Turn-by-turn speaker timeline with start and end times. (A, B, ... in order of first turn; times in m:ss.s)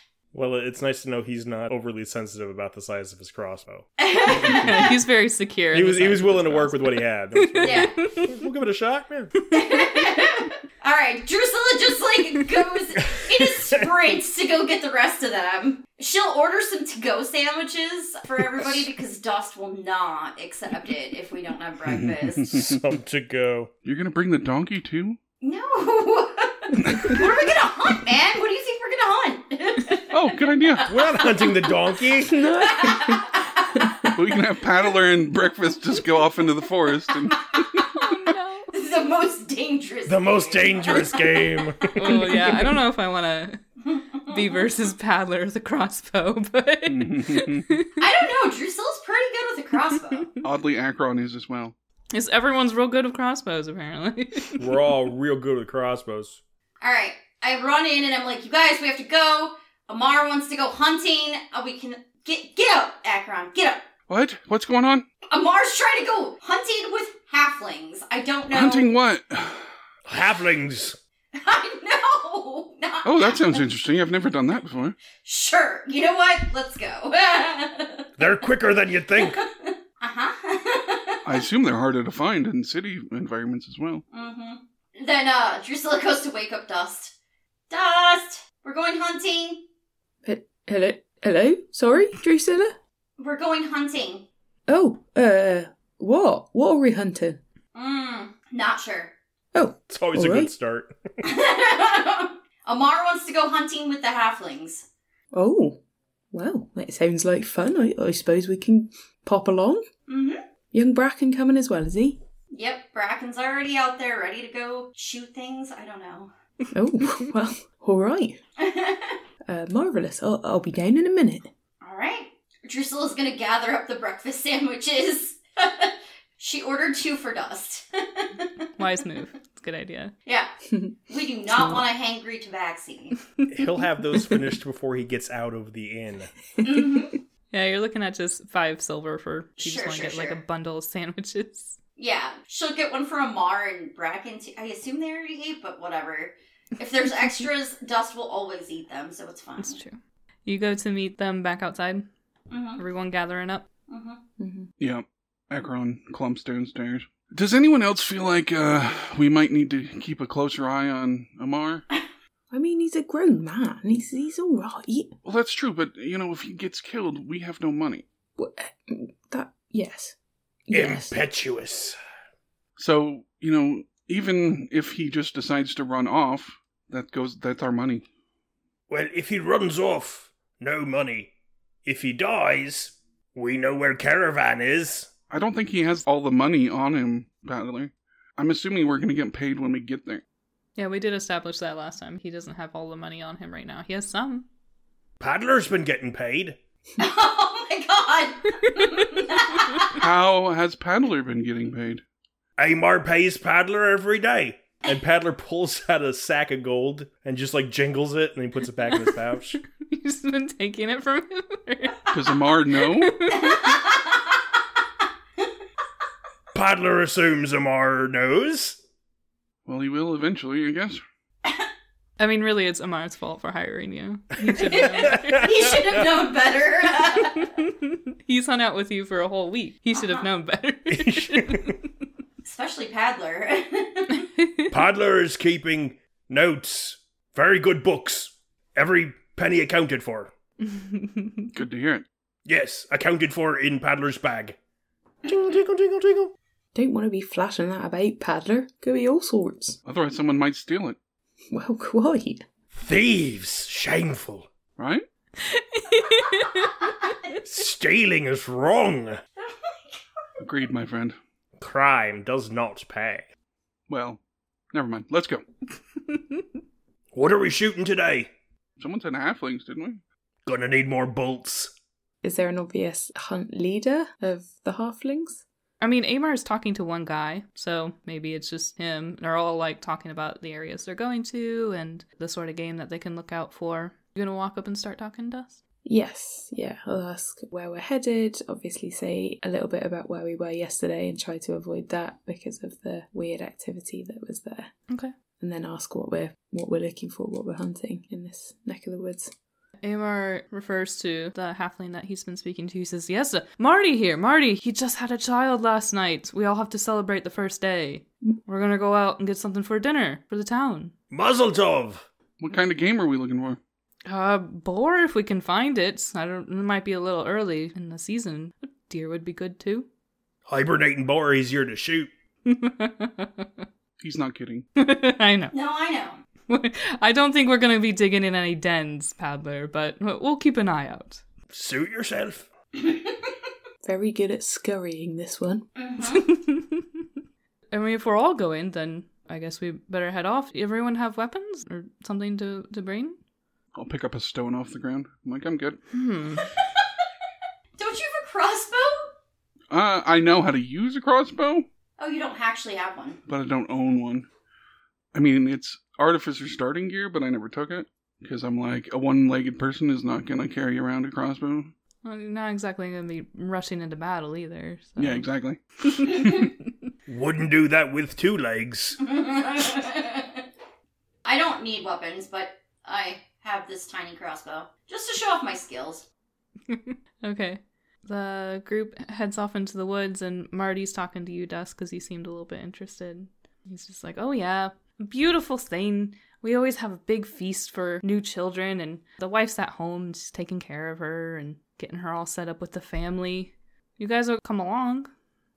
0:00.3-0:04.7 A
0:04.0-0:05.0 B
0:04.4-0:07.0 C
0:05.7-0:09.3 A
0:07.6-0:08.0 B
0:09.5-0:22.5 B
0:13.6-0:13.8 A
0:21.8-0:22.8 D
0:22.5-0:23.7 A
0:23.8-0:25.2 D
0:25.4-0:31.6 B
0:26.8-0:27.2 D
0:30.1-0:30.9 D
0:30.8-0:32.4 A
0:32.2-0:34.2 E
0:32.6-0:33.8 B
0:34.1-0:37.4 D
0:37.3-0:37.6 B
0:37.7-0:38.7 C
0:38.7-0:42.1 B
0:40.1-0:42.3 A
0:42.0-0:43.6 C
0:43.9-0:44.7 B
0:44.3-0:48.0 C
0:46.9-0:47.8 D
0:48.0-0:50.3 B
0:50.4-0:51.8 D
0:52.1-0:54.7 C
0:54.6-0:56.4 A
0:56.8-1:03.8 B
1:04.1-1:05.1 D
1:05.3-1:08.9 B
1:08.5-1:09.7 D
1:10.1-1:11.0 A
1:11.3-1:13.6 B
1:13.0-1:15.0 D
1:15.2-1:18.1 B
1:18.2-1:19.4 A
1:19.2-1:21.2 B
1:21.2-1:24.0 D
1:24.1-1:27.1 B
1:27.7-1:29.6 B
1:30.2-1:32.8 E
1:33.2-1:34.3 B
1:34.7-1:37.4 E
1:37.7-1:39.1 B
1:39.6-1:40.5 E
1:39.9-1:41.0 A
1:41.2-1:44.9 B
1:45.3-1:45.8 E
1:46.3-1:49.9 E
1:50.1-1:50.4 B
1:50.7-1:52.2 E
1:52.5-1:56.3 B
1:56.7-1:58.4 E
1:58.6-1:59.2 B
1:59.4-2:01.5 E
2:01.8-2:08.5 B
2:08.8-2:10.1 C
2:10.3-2:10.5 B
2:11.1-2:13.2 B
2:11.5-2:11.9 E
2:13.5-2:16.3 A
2:16.6-2:17.2 B
2:17.5-2:21.8 C
2:19.6-2:20.4 B
2:22.0-2:29.8 B
2:29.6-2:32.1 C
2:32.5-2:32.8 B
2:32.8-2:33.6 C
2:33.9-2:34.2 B
2:34.4-2:34.7 E
2:34.8-2:41.8 D
2:42.5-2:45.1 E
2:45.2-2:48.0 D
2:48.4-2:50.2 E
2:50.7-2:51.2 E
2:50.7-2:52.0 A
2:52.8-2:58.0 D
2:58.9-3:01.3 A
3:01.8-3:05.1 A
3:05.3-3:10.2 D
3:10.8-3:14.4 C
3:15.2-3:16.6 A
3:17.0-3:20.0 B
3:19.9-3:22.0 D
3:22.6-3:29.6 A
3:29.9-3:32.3 C
3:32.1-3:33.3 D
3:32.9-3:33.8 C
3:33.4-3:34.3 B
3:36.5-3:38.8 A
3:39.7-3:41.0 D
3:42.2-3:45.4 C
3:44.6-3:47.5 B
3:44.9-3:46.0 A
3:48.3-3:51.7 C
3:49.9-3:50.3 B
3:50.9-3:51.8 A
3:52.4-3:54.2 B
3:54.7-4:00.3 A
4:00.8-4:01.4 C
4:01.5-4:02.0 D
4:02.5-4:04.6 A
4:05.2-4:06.3 A
4:06.8-4:09.8 E
4:09.8-4:11.0 D
4:11.5-4:12.4 E
4:12.8-4:14.5 A
4:14.8-4:15.1 D
4:15.8-4:16.8 C
4:17.4-4:19.2 A
4:19.4-4:20.2 B
4:20.4-4:21.2 D
4:21.6-4:23.3 A
4:23.9-4:24.2 D
4:24.7-4:25.4 D
4:27.1-4:28.3 A
4:28.8-4:30.0 D
4:30.5-4:31.7 A
4:32.2-4:35.4 E
4:35.8-4:45.6 C
4:45.8-4:54.7 E
4:55.4-4:59.3 E
4:59.8-5:10.9 C
5:11.1-5:12.1 A
5:12.4-5:13.6 D
5:14.1-5:19.9 C
5:20.5-5:22.1 A
5:22.5-5:23.4 C
5:24.0-5:24.7 D
5:24.8-5:25.5 C
5:25.5-5:26.2 B
5:26.5-5:31.2 C
5:31.5-5:32.5 A
5:32.8-5:33.3 B
5:33.8-5:35.7 E
5:35.8-5:36.3 B
5:36.1-5:36.8 C
5:37.7-5:43.2 C
5:43.8-5:45.8 D
5:45.9-5:46.4 C
5:46.4-5:46.8 B
5:47.8-5:49.1 B
5:49.7-5:51.7 D
5:52.0-5:53.2 B
5:53.3-5:54.3 D
5:55.1-6:01.7 D
6:02.0-6:05.2 C
6:05.0-6:06.4 D
6:06.0-6:06.3 C
6:07.1-6:09.0 A
6:09.0-6:10.4 B
6:11.2-6:16.1 B
6:16.7-6:35.1 C